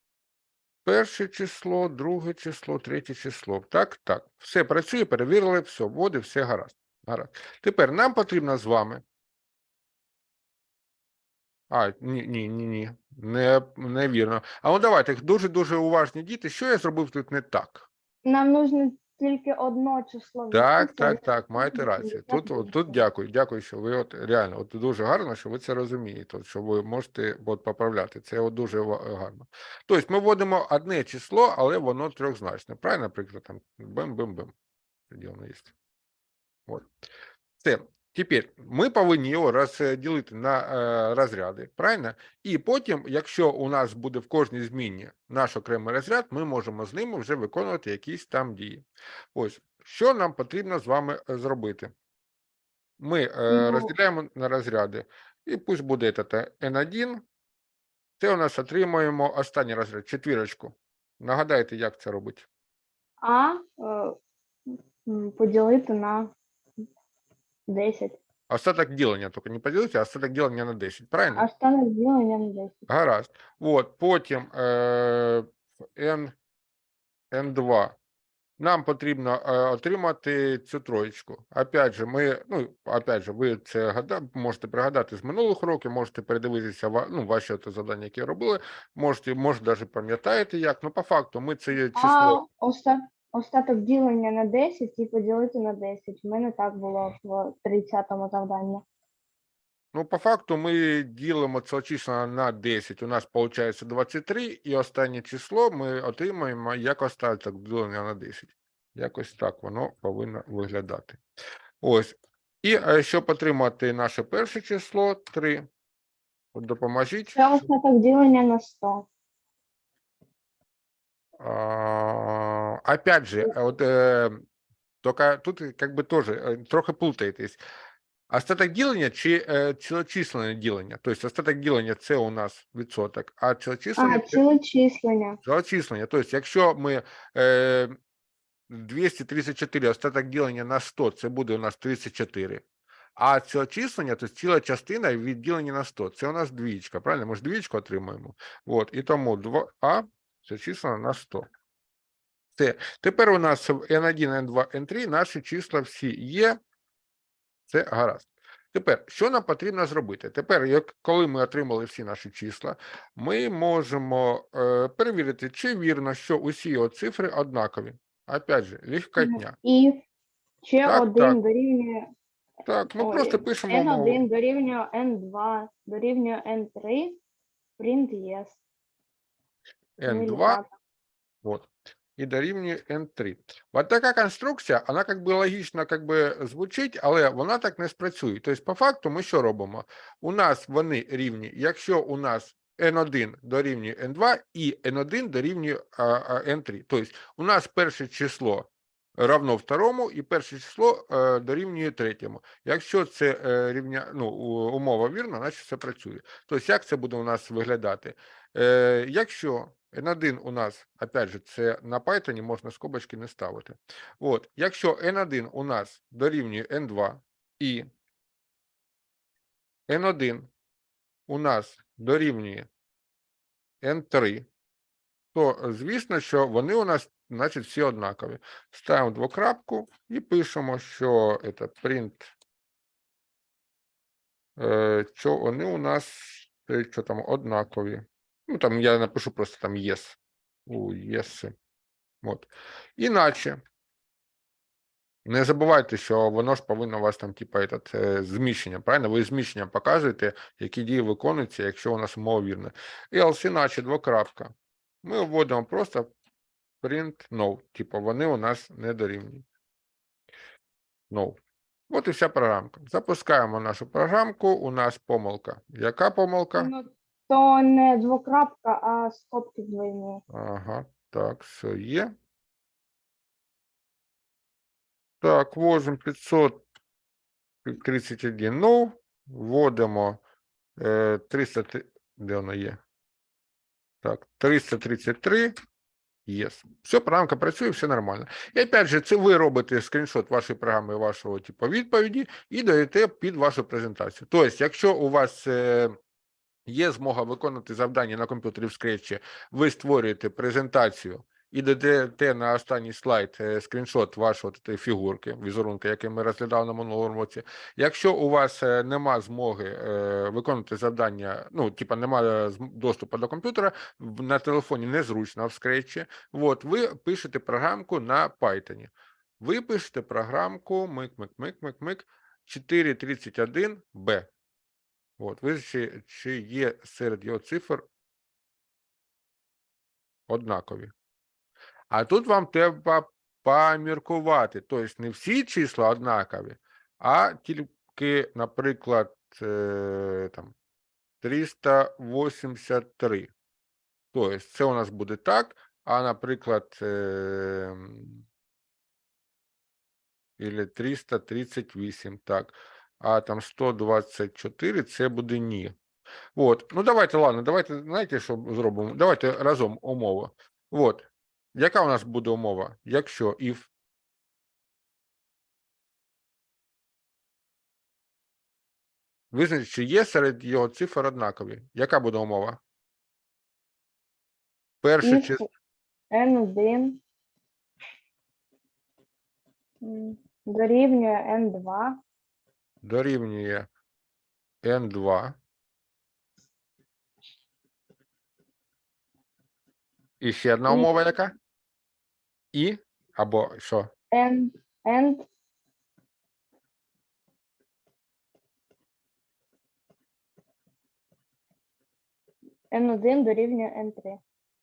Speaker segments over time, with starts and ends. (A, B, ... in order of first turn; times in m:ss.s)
0:00.8-0:09.0 A
0:11.7-0:17.8 A
0:18.2-0:23.0 B
0:20.5-0:34.5 A
0:35.1-0:35.7 A
0:37.6-0:51.9 A
0:53.0-0:57.2 A
0:53.5-0:53.9 B
0:58.2-1:02.5 A
1:03.2-1:04.2 B
1:05.0-1:06.3 B
1:07.7-1:08.2 B
1:08.5-1:11.4 A
1:11.3-1:12.9 B
1:12.9-1:16.3 A
1:17.3-1:18.0 A
1:18.6-1:32.4 A
1:31.9-1:38.8 B
1:39.9-1:51.2 A
1:51.8-1:55.6 A
1:56.5-1:57.4 A
1:57.3-1:59.1 B
2:01.4-2:04.4 A
2:05.0-2:07.6 A
2:08.3-2:14.4 A
2:14.0-2:15.4 B
2:15.4-2:17.9 A
2:18.7-2:22.6 A
2:23.2-2:31.4 A
2:32.6-2:36.6 A
2:37.7-2:49.5 A
2:49.2-2:50.0 B
2:50.6-2:52.1 B
2:50.8-2:51.4 A
2:52.6-2:54.2 A
2:52.9-2:57.2 B
2:57.8-2:58.6 B
3:00.0-3:00.6 A
3:00.1-3:00.7 B
3:01.4-3:37.9 A
3:39.9-3:40.5 A
3:41.3-3:42.7 A
3:43.8-3:44.4 A
3:45.3-3:52.3 A
3:54.6-4:01.5 A
4:02.2-4:03.6 A
4:05.2-4:16.1 A
4:16.8-4:19.4 A
4:21.1-4:21.4 A
4:21.9-4:26.7 A
4:26.6-4:30.2 B
4:30.3-4:32.1 A
4:35.2-4:36.6 A
4:37.6-4:40.2 A
4:40.8-4:42.8 A
4:44.0-4:45.5 A
4:46.2-4:55.9 A
4:56.6-5:24.3 A
5:25.2-5:27.8 A
5:30.3-5:30.9 A
5:31.9-5:40.5 A
5:41.2-5:43.3 A
5:44.1-5:48.2 A
5:50.4-5:55.7 A
5:56.3-6:03.7 A
6:09.3-6:12.6 A
6:14.8-6:15.4 A
6:15.0-6:15.4 B
6:16.1-6:17.0 B
6:19.8-6:22.0 B
6:22.8-6:23.7 A
6:24.6-6:25.4 A
6:30.2-6:31.3 A
6:32.5-6:33.9 A
6:34.1-6:35.2 B
6:42.7-6:44.2 B